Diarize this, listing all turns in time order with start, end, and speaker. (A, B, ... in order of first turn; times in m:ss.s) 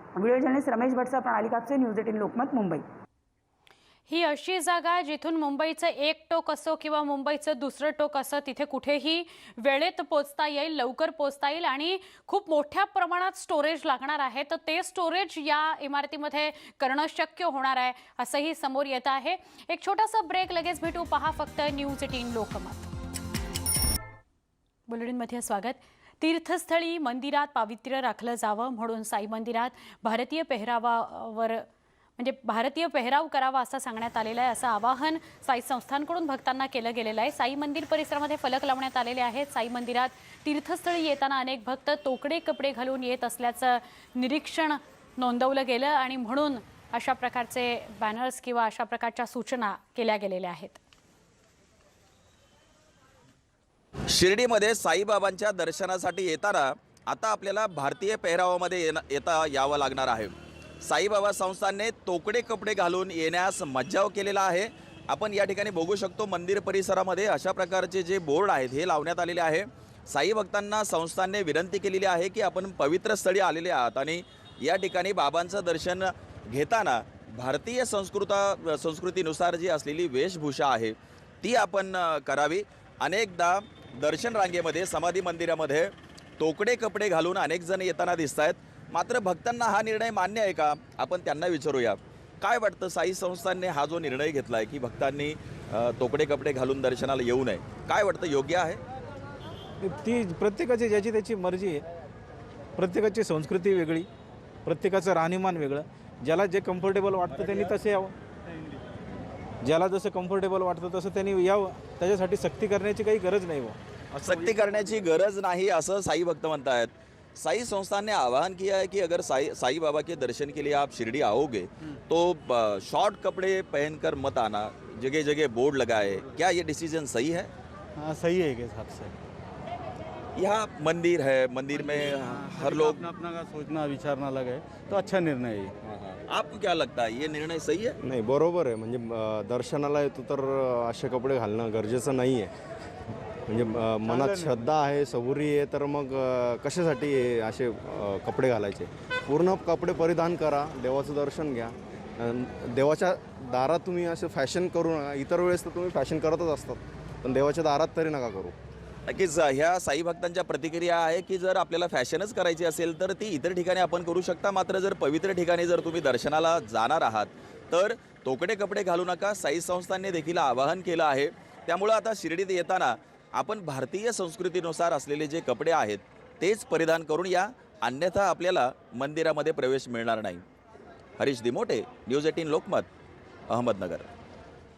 0:00.2-0:02.8 A
0:04.1-0:22.9 B
0:24.9-0:31.6 B
0:32.2-0:50.8 B
0:54.1-1:00.3 C
1:00.8-1:38.8 C
1:39.8-1:41.8 D
1:42.8-1:44.1 D
1:44.6-1:48.1 D
1:49.6-1:54.8 D
1:54.2-2:07.5 C
2:08.0-2:09.1 D
2:10.4-2:13.1 C
2:12.4-2:15.7 D
2:16.3-2:18.0 C
2:18.0-2:22.5 E
2:23.5-2:38.5 E
2:24.1-2:24.6 D
2:39.1-3:00.4 C
3:01.2-3:02.9 C
3:03.5-3:04.1 C